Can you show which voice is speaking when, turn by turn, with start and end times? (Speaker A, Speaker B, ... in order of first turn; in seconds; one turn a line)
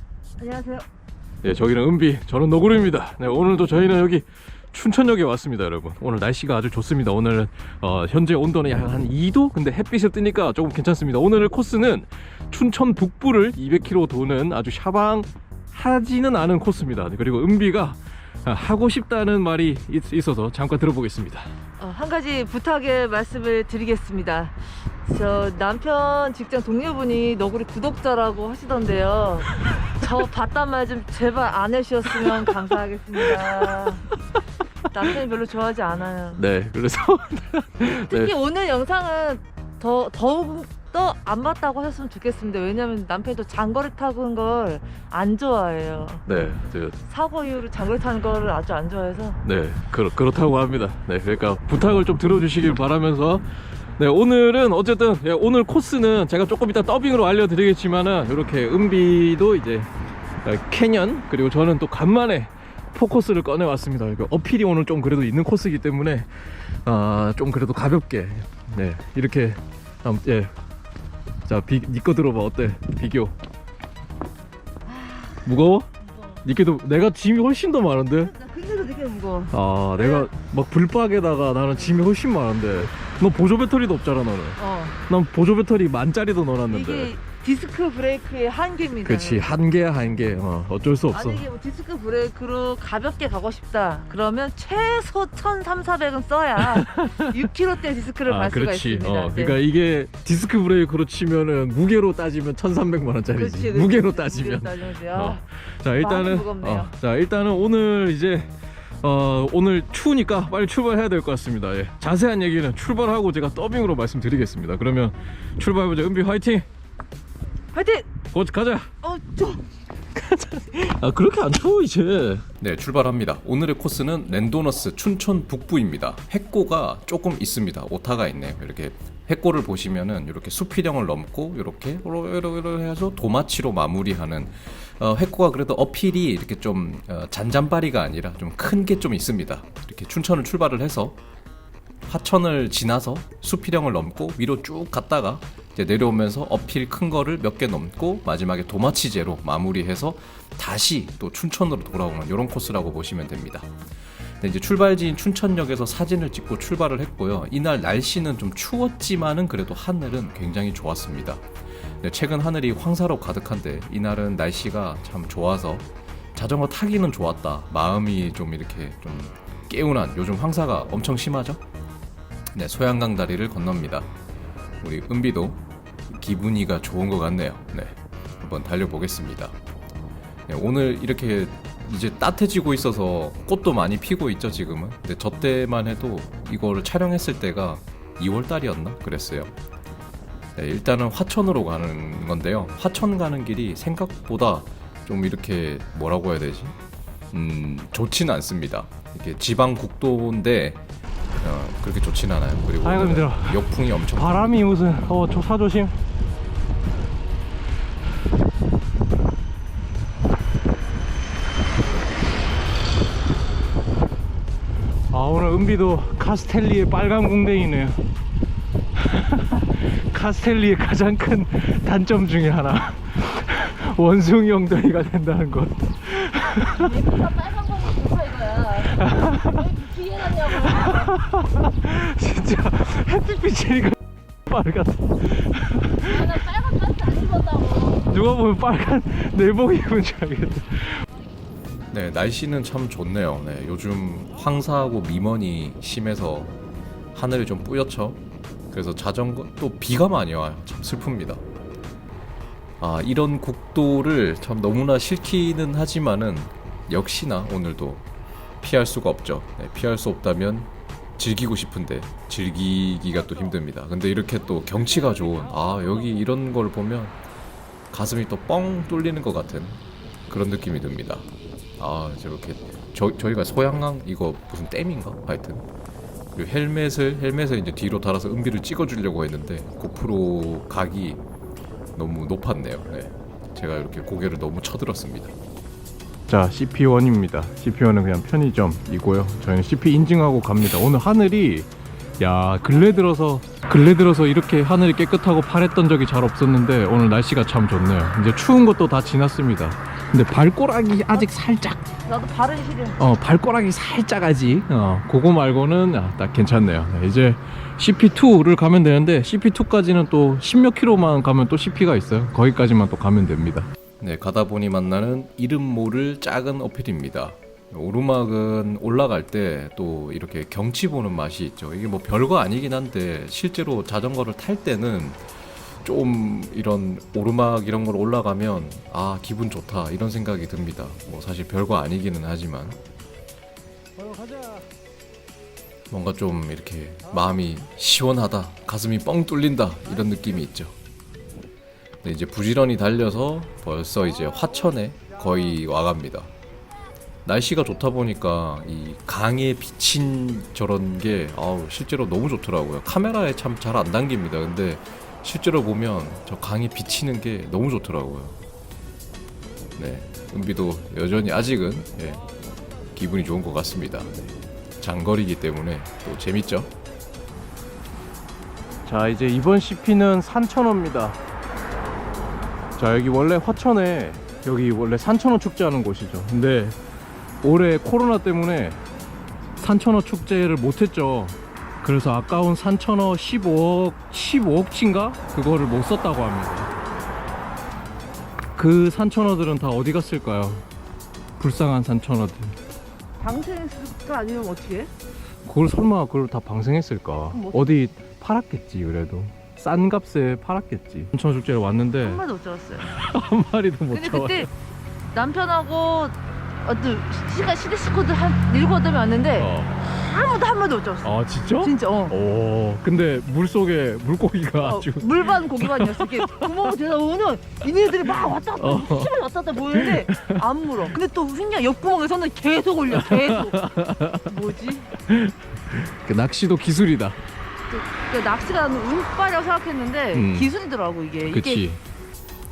Speaker A: 0.4-0.9
Speaker B: 1.4-21.5
Speaker A: 21.8-34.0
Speaker B: 33.4-33.8
Speaker A: 34.9-36.4
Speaker B: 36.4-38.3
Speaker A: 37.9-46.2
Speaker B: 46.3-47.0
Speaker A: 47.1-49.4
Speaker B: 49.4-59.9
Speaker B: 60.4-66.3
Speaker B: 66.8-70.5
Speaker B: 71.5-73.3
Speaker A: 74.9-75.4
Speaker B: 75.5-75.9
Speaker B: 76.4-78.3
Speaker A: 78.2-80.3
Speaker B: 79.5-87.1
Speaker A: 84.6-85.0
Speaker A: 86.7-89.6
Speaker B: 89.0-91.5
Speaker A: 91.1-99.6
Speaker B: 96.6-97.5
Speaker B: 98.3-108.5
Speaker A: 103.4-105.4
Speaker A: 106.0-106.9
Speaker B: 109.0-116.7
Speaker A: 117.7-118.1
Speaker B: 118.3-118.9
Speaker A: 119.0-119.6
Speaker B: 120.2-122.4
Speaker C: 122.6-141.2
Speaker C: 142.1-153.7
Speaker C: 154.4-161.4
Speaker C: 162.0-171.6
Speaker C: 172.5-174.1
Speaker C: 174.8-179.6
Speaker C: 180.5-189.5
Speaker C: 190.6-196.8
Speaker C: 197.3-200.8
Speaker C: 201.4-204.5
Speaker B: 202.8-205.9
Speaker B: 215.1-218.0
Speaker B: 219.0-227.0
Speaker A: 226.5-231.1
Speaker B: 228.9-229.7
Speaker B: 230.4-234.0
Speaker B: 234.5-236.5
Speaker A: 236.0-238.0
Speaker B: 237.9-241.1
Speaker C: 241.9-246.6
Speaker C: 247.1-251.4
Speaker C: 252.8-258.1
Speaker C: 258.6-267.1
Speaker C: 267.9-275.6
Speaker C: 276.4-281.2
Speaker C: 282.0-285.3
Speaker B: 286.3-291.7
Speaker B: 292.2-301.8
Speaker A: 302.0-303.0
Speaker B: 303.0-313.7
Speaker C: 314.0-325.2
Speaker C: 325.8-332.8
Speaker B: 334.2-334.6
Speaker C: 335.9-340.8
Speaker C: 342.0-346.3
Speaker C: 347.2-358.4
Speaker C: 359.8-366.7
Speaker B: 368.9-371.2
Speaker B: 372.8-376.8
Speaker B: 377.4-378.8
Speaker B: 379.6-386.7
Speaker B: 388.6-390.6
Speaker B: 391.4-392.6
Speaker A: 393.2-394.9
Speaker B: 395.4-402.2
Speaker A: 397.3-397.8
Speaker A: 402.0-402.9
Speaker B: 402.8-404.5
Speaker A: 403.9-404.5
Speaker A: 405.1-412.1
Speaker B: 409.4-409.8
Speaker B: 411.0-416.7
Speaker A: 414.6-423.6
Speaker B: 418.6-419.1
Speaker B: 419.7-420.4
Speaker B: 422.9-424.3
Speaker A: 424.2-424.9
Speaker B: 425.1-427.2
Speaker A: 427.7-431.6
Speaker B: 430.1-430.5
Speaker B: 431.3-431.8